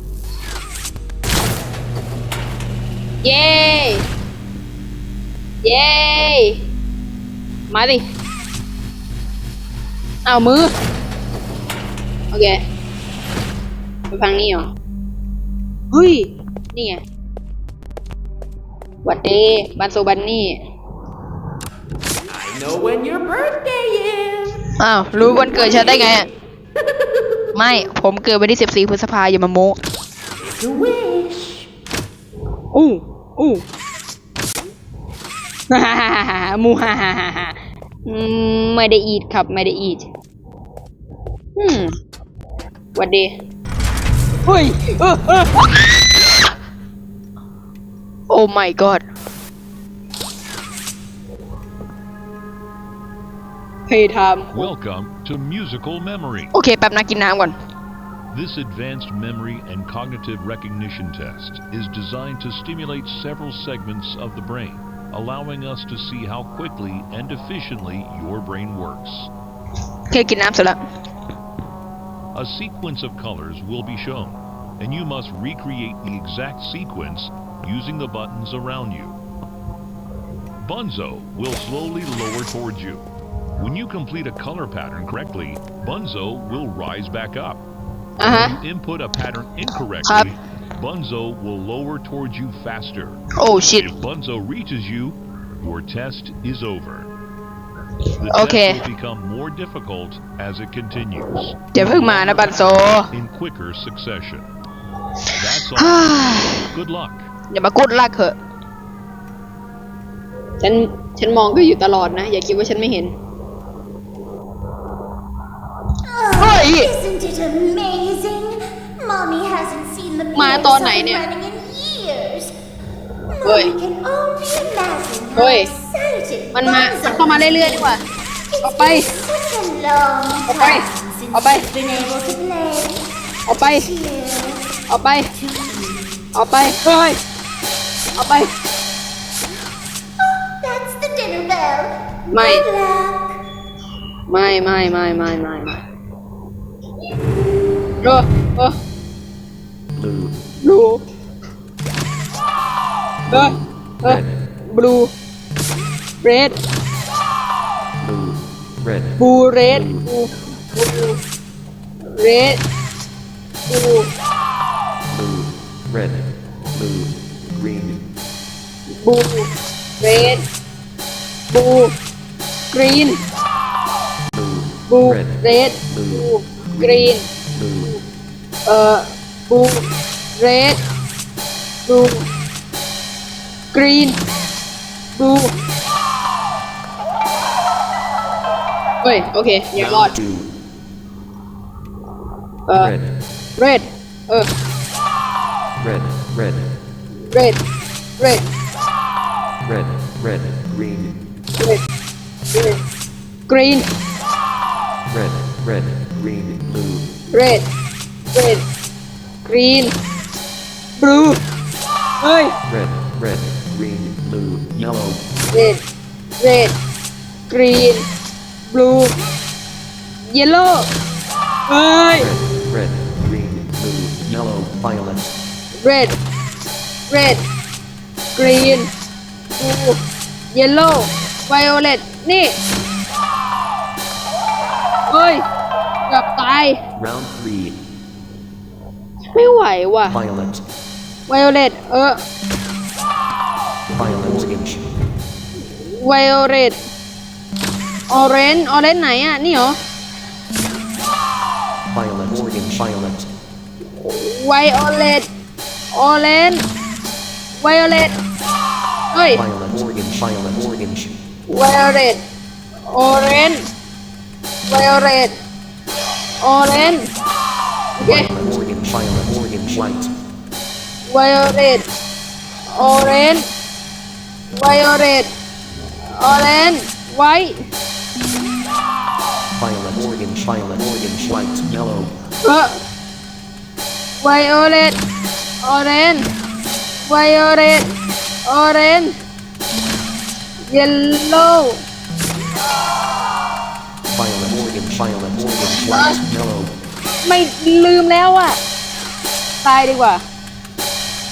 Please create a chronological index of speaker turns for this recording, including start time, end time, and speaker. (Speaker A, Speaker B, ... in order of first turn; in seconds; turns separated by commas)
Speaker A: 3.2-4.0, Speaker A: 5.7-6.6, Speaker A: 7.7-8.0, Speaker A: 10.3-10.7, Speaker A: 14.1-14.7, Speaker A: 15.9-17.0, Speaker A: 19.1-20.6, Speaker B: 22.3-24.3, Speaker C: 23.3-24.2, Speaker A: 24.8-26.3, Speaker B: 25.7-26.0, Speaker A: 27.6-29.8, Speaker B: 30.4-30.9, Speaker C: 30.5-31.6, Speaker A: 32.7-33.6, Speaker A: 35.7-40.1, Speaker A: 41.6-42.0, Speaker A: 43.0-43.4, Speaker A: 44.5-45.7, Speaker A: 48.3-49.0, Speaker A: 53.9-54.7, Speaker D: 54.5-56.5, Speaker A: 56.5-57.5, Speaker D: 58.3-69.3, Speaker A: 70.1-70.8, Speaker D: 72.3-79.2, Speaker D: 80.6-83.1, Speaker D: 83.6-87.6, Speaker A: 88.2-88.5, Speaker D: 88.2-93.3, Speaker A: 90.0-90.3, Speaker A: 93.4-93.9, Speaker D: 93.8-97.1, Speaker D: 98.2-104.5, Speaker A: 98.3-98.8, Speaker A: 101.7-103.1, Speaker D: 105.4-107.3, Speaker A: 105.8-106.7, Speaker A: 107.5-108.4, Speaker A: 110.6-113.2, Speaker C: 116.0-122.5, Speaker A: 116.3-116.9, Speaker A: 120.3-121.2, Speaker C: 123.3-134.8, Speaker A: 123.5-123.7, Speaker A: 125.4-125.7, Speaker A: 126.5-128.0, Speaker A: 128.6-129.1, Speaker A: 130.5-131.7, Speaker A: 133.5-133.9, Speaker A: 134.9-135.3, Speaker C: 135.3-136.7, Speaker A: 136.3-137.2, Speaker A: 138.2-138.5, Speaker C: 140.2-143.4, Speaker A: 142.3-142.7, Speaker A: 144.3-145.8, Speaker A: 148.0-148.8, Speaker E: 149.9-150.4, Speaker A: 150.6-151.0, Speaker A: 153.3-154.2, Speaker E: 154.1-154.4, Speaker A: 154.7-155.1, Speaker A: 156.2-156.5, Speaker E: 158.0-160.1, Speaker A: 159.2-161.2, Speaker A: 162.2-162.6, Speaker A: 163.7-164.1, Speaker E: 165.1-168.0, Speaker A: 169.0-169.5, Speaker A: 170.0-170.4, Speaker A: 171.5-171.9, Speaker A: 172.7-173.2, Speaker E: 174.3-177.9, Speaker A: 174.9-177.3, Speaker A: 178.7-179.9, Speaker A: 180.4-180.8, Speaker A: 181.9-182.3, Speaker A: 183.7-184.2, Speaker A: 185.2-185.5, Speaker A: 189.0-190.1, Speaker E: 189.8-190.5, Speaker A: 192.7-192.9, Speaker E: 192.8-193.2, Speaker A: 193.6-194.5, Speaker E: 195.8-196.8, Speaker E: 199.6-201.2, Speaker A: 203.5-203.9, Speaker E: 205.1-207.1, Speaker A: 207.3-207.6, Speaker A: 208.3-208.6, Speaker A: 209.5-209.9, Speaker A: 211.0-211.4, Speaker A: 212.2-212.6, Speaker E: 212.7-215.2, Speaker A: 215.5-215.8, Speaker A: 216.4-216.8, Speaker A: 217.5-218.1, Speaker A: 218.7-219.2, Speaker A: 220.3-220.9, Speaker A: 221.7-222.3, Speaker E: 222.2-225.3, Speaker A: 225.8-226.2, Speaker A: 227.1-227.4, Speaker A: 228.4-228.9, Speaker A: 229.6-230.0, Speaker A: 230.5-232.6, Speaker A: 235.1-235.4, Speaker A: 236.1-236.8, Speaker E: 237.0-237.8, Speaker A: 239.4-240.2, Speaker E: 240.1-240.6, Speaker A: 241.3-242.2, Speaker E: 243.9-244.9, Speaker A: 246.0-246.8, Speaker A: 248.1-249.7, Speaker E: 251.9-253.3, Speaker A: 254.1-255.3, Speaker A: 255.9-256.6, Speaker A: 257.6-258.1, Speaker A: 259.1-259.4, Speaker E: 259.3-261.1, Speaker A: 261.5-262.2, Speaker A: 262.9-263.7, Speaker A: 264.7-265.3, Speaker A: 266.4-267.1, Speaker A: 268.0-268.3, Speaker E: 268.1-270.1, Speaker A: 271.1-271.8, Speaker A: 272.8-273.5, Speaker A: 274.6-275.3, Speaker A: 276.2-277.6, Speaker E: 279.6-282.1, Speaker A: 282.4-282.7, Speaker A: 284.2-285.0, Speaker A: 285.6-286.3, Speaker A: 287.1-287.9, Speaker A: 288.5-289.1, Speaker A: 290.7-291.8, Speaker E: 294.1-296.7, Speaker A: 295.9-296.2, Speaker A: 297.2-298.6, Speaker A: 299.6-300.2